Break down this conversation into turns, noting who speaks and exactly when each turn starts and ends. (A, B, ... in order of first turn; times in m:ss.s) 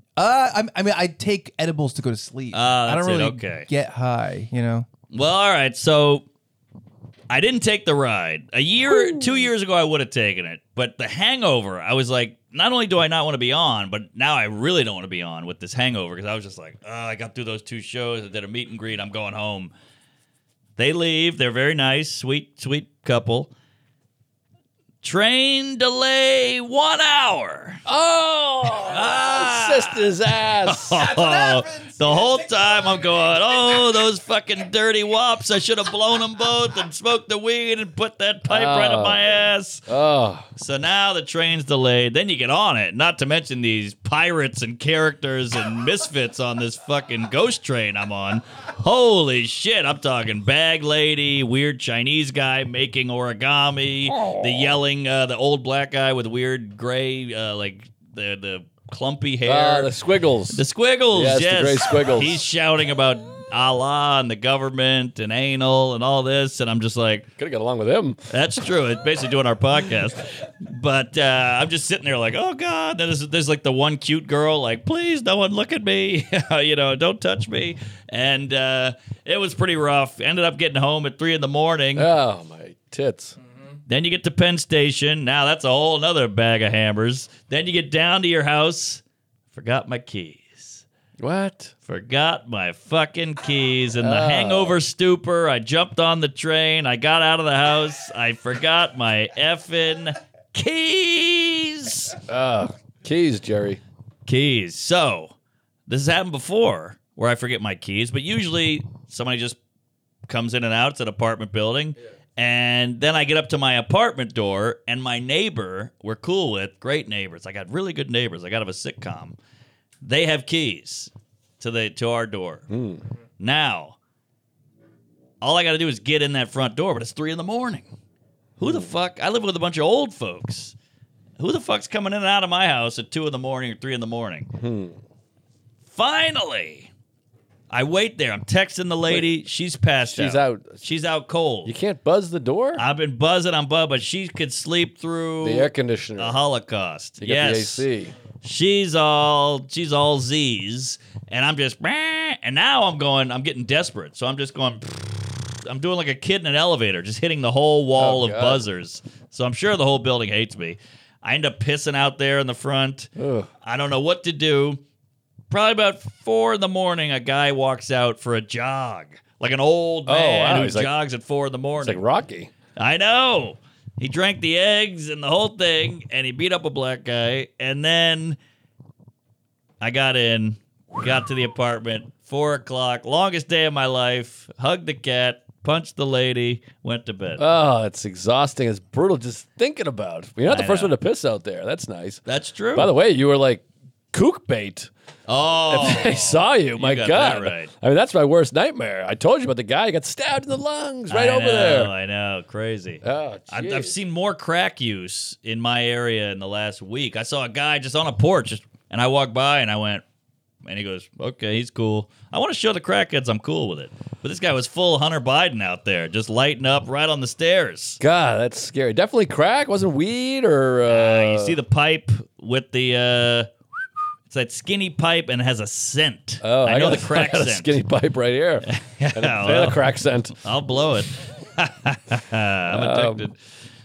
0:00.2-0:04.9 A
0:02.5-0:03.7 B
0:05.1-0:06.2 B
0:07.3-0:19.7 B
0:20.8-0:23.5 B
0:25.0-0:27.8 B
0:27.9-0:31.0 C
0:28.8-0:30.1 B
0:30.7-0:39.9 B
0:31.0-0:32.5 A
0:38.5-0:39.2 C
0:39.9-0:40.5 C
0:40.6-0:59.9 B
0:54.1-0:54.7 C
0:59.4-1:02.4 C
1:00.5-1:07.3 B
1:07.4-1:08.2 C
1:08.3-1:22.1 B
1:22.0-1:23.4 C
1:23.9-1:30.8 B
1:31.2-1:31.7 C
1:31.9-1:42.2 B
1:34.0-1:34.8 C
1:42.3-1:43.8 C
1:44.3-1:45.3 B
1:45.9-1:49.6 B
1:50.3-1:59.4 B
2:00.0-2:02.7 B
2:02.7-2:03.0 C
2:03.4-2:04.0 B
2:05.4-2:07.9 B
2:08.6-2:10.8 B
2:08.6-2:08.9 C
2:11.4-2:14.5 B
2:14.5-2:15.0 C
2:15.9-2:16.9 B
2:17.7-2:21.7 B
2:20.1-2:20.8 C
2:21.6-2:22.8 C
2:22.8-2:27.9 B
2:25.4-2:26.4 C
2:27.2-2:28.1 C
2:28.4-2:43.1 B
2:38.0-2:38.6 C
2:43.2-2:43.5 C
2:43.6-2:44.8 B
2:45.5-2:52.0 B
2:50.1-2:50.9 C
2:51.8-2:52.5 C
2:52.8-2:58.4 B
2:59.8-3:07.4 B
3:07.4-3:12.2 C
3:10.5-3:10.9 B
3:12.3-3:12.9 B
3:12.8-3:14.9 C
3:15.3-3:17.7 B
3:15.7-3:21.9 C
3:21.1-3:30.0 B
3:23.0-3:24.0 C
3:30.6-3:38.0 B
3:38.0-3:41.6 C
3:40.9-3:43.5 B
3:44.3-3:47.8 B
3:46.4-3:50.4 C
3:48.7-3:49.8 B
3:50.4-3:53.4 B
3:52.7-3:53.3 C